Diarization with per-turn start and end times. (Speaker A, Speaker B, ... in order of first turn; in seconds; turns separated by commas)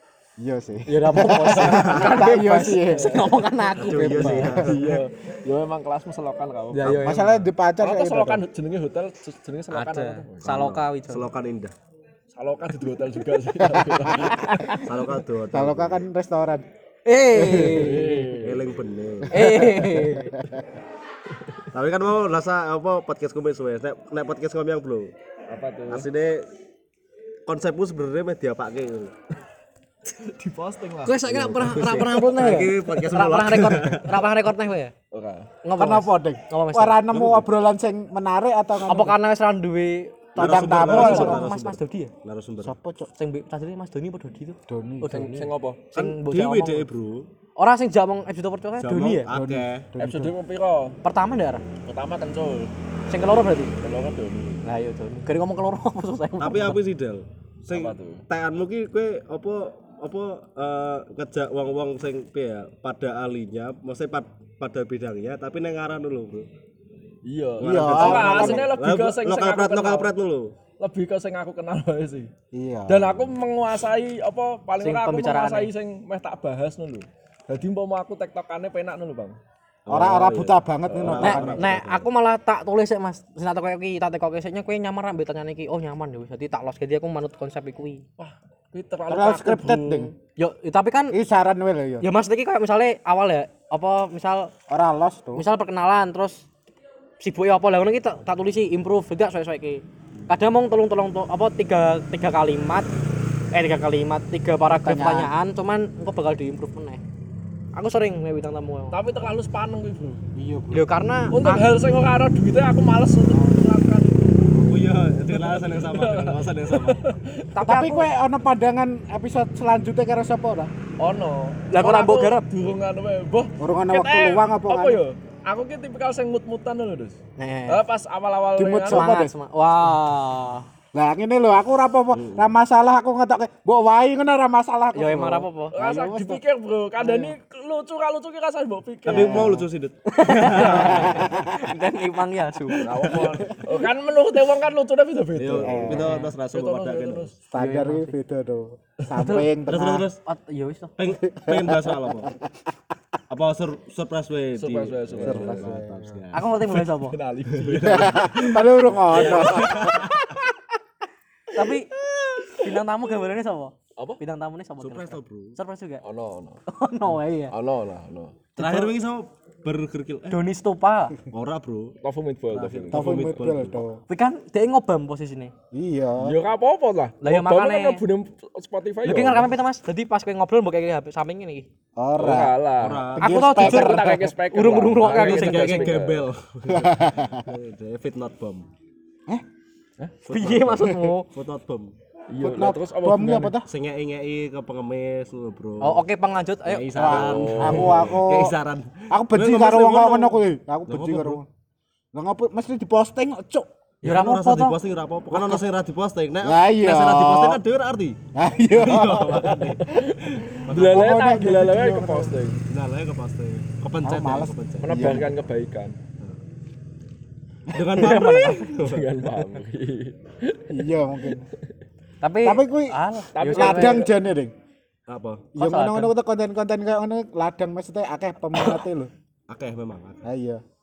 Speaker A: 0.4-4.7, Speaker B: 0.9-4.5, Speaker C: 1.6-2.2, Speaker D: 2.9-3.3, Speaker C: 3.7-5.0, Speaker D: 4.6-7.2, Speaker B: 6.7-7.4, Speaker A: 6.9-8.4, Speaker D: 7.8-10.5, Speaker B: 9.7-11.3, Speaker C: 10.4-11.7, Speaker D: 12.3-14.4, Speaker A: 13.7-14.4, Speaker B: 14.3-14.8, Speaker C: 14.8-16.0, Speaker A: 15.5-16.6, Speaker B: 17.1-18.4, Speaker A: 17.3-18.2, Speaker D: 17.6-18.8, Speaker C: 18.4-19.8, Speaker B: 19.3-20.4, Speaker A: 19.4-20.6, Speaker C: 21.7-25.1, Speaker D: 25.5-26.1, Speaker C: 25.9-26.5, Speaker C: 27.4-29.1, Speaker D: 30.1-31.2, Speaker B: 31.0-34.9, Speaker C: 31.2-34.3, Speaker D: 31.8-32.0, Speaker D: 35.1-35.5, Speaker B: 35.6-37.0, Speaker A: 35.8-39.2, Speaker C: 37.1-37.5, Speaker B: 38.9-42.1, Speaker A: 40.4-41.5, Speaker C: 40.4-42.7, Speaker A: 42.6-43.1, Speaker B: 43.1-46.9, Speaker A: 44.7-45.4, Speaker D: 45.1-45.8, Speaker C: 45.9-47.3, Speaker B: 47.6-49.3, Speaker C: 48.8-49.9, Speaker A: 49.3-50.3, Speaker D: 50.0-51.0, Speaker B: 51.0-51.6, Speaker D: 51.9-52.7, Speaker B: 53.1-53.7, Speaker D: 53.8-54.6, Speaker B: 54.6-56.8, Speaker C: 56.4-66.5, Speaker D: 57.7-58.2, Speaker D: 67.2-70.1, Speaker A: 67.6-68.7, Speaker C: 67.6-70.5, Speaker D: 70.8-72.3, Speaker A: 72.5-73.3, Speaker D: 72.9-79.3, Speaker B: 74.8-75.7, Speaker C: 79.9-82.1, Speaker A: 79.9-81.7, Speaker D: 80.1-81.4, Speaker B: 81.2-88.0, Speaker D: 88.2-90.1, Speaker A: 89.1-90.1, Speaker B: 90.3-91.1, Speaker A: 91.1-92.0, Speaker B: 92.0-94.5, Speaker A: 94.7-95.4, Speaker B: 95.3-96.5, Speaker B: 97.2-102.9, Speaker B: 103.5-107.0, Speaker A: 104.7-105.3, Speaker B: 107.7-109.0, Speaker D: 108.9-110.2, Speaker A: 110.3-110.9, Speaker B: 110.7-111.7, Speaker D: 111.3-114.5, Speaker C: 114.5-117.1, Speaker D: 115.3-117.5, Speaker B: 117.5-118.1, Speaker A: 117.6-120.7, Speaker D: 121.0-127.2, Speaker B: 121.7-122.4, Speaker A: 123.6-125.0, Speaker B: 127.4-127.8, Speaker D: 127.7-129.1, Speaker A: 128.6-129.3, Speaker B: 128.9-130.6, Speaker A: 130.9-136.4, Speaker C: 132.1-132.5, Speaker B: 134.9-135.8, Speaker D: 135.7-139.6, Speaker A: 137.0-137.3, Speaker C: 139.1-141.4, Speaker A: 139.1-139.7, Speaker B: 140.1-142.9, Speaker A: 140.8-141.5, Speaker D: 142.7-147.3, Speaker C: 142.8-143.6, Speaker C: 145.3-147.3, Speaker A: 145.6-146.1, Speaker B: 145.9-146.3, Speaker A: 147.5-150.0, Speaker B: 147.6-148.1, Speaker D: 149.1-149.4, Speaker C: 149.7-150.2, Speaker B: 150.2-150.9, Speaker C: 151.0-152.3, Speaker A: 151.2-152.5, Speaker C: 153.3-156.5, Speaker D: 154.6-155.7, Speaker A: 155.2-156.2, Speaker B: 156.3-157.2, Speaker D: 156.7-158.4, Speaker C: 157.5-160.4, Speaker A: 157.8-160.3, Speaker D: 159.1-159.6, Speaker B: 161.5-161.9, Speaker D: 162.0-162.6, Speaker B: 162.5-166.0, Speaker C: 164.8-165.6, Speaker D: 166.0-166.6, Speaker B: 166.7-167.5, Speaker D: 167.5-168.4, Speaker B: 168.6-168.9, Speaker C: 168.6-170.4, Speaker B: 170.3-171.1, Speaker C: 171.3-171.9, Speaker D: 172.0-173.2, Speaker C: 172.5-173.8, Speaker A: 172.9-174.0, Speaker B: 174.1-175.5, Speaker A: 175.7-176.3, Speaker D: 176.2-179.5, Speaker B: 177.2-178.0, Speaker B: 179.0-181.7, Speaker A: 182.0-184.3, Speaker D: 182.2-186.3, Speaker C: 182.8-183.8, Speaker B: 183.2-186.0, Speaker C: 185.0-188.7, Speaker A: 186.7-187.4, Speaker C: 190.2-191.9, Speaker B: 190.3-191.3, Speaker D: 192.3-193.6, Speaker A: 192.4-193.7, Speaker C: 193.6-196.0, Speaker B: 195.8-197.2, Speaker C: 196.6-201.4, Speaker A: 196.9-198.5, Speaker D: 197.1-198.1, Speaker A: 199.1-201.5, Speaker A: 202.1-203.7, Speaker B: 204.0-204.8, Speaker C: 204.0-208.2, Speaker A: 206.4-207.6, Speaker A: 208.3-209.8, Speaker C: 208.7-209.9, Speaker D: 209.8-212.6, Speaker C: 210.7-211.2, Speaker A: 210.7-212.3, Speaker C: 212.7-215.2, Speaker A: 214.0-215.3, Speaker D: 214.8-216.0, Speaker C: 217.7-219.1, Speaker D: 218.0-221.3, Speaker B: 218.0-218.5, Speaker A: 220.7-221.5, Speaker B: 222.2-224.1, Speaker A: 222.4-222.9, Speaker D: 223.3-224.1, Speaker A: 223.5-224.5, Speaker C: 225.1-225.5, Speaker A: 225.6-229.1, Speaker B: 225.6-226.1, Speaker B: 228.6-228.8, Speaker C: 229.5-230.2, Speaker A: 230.2-230.6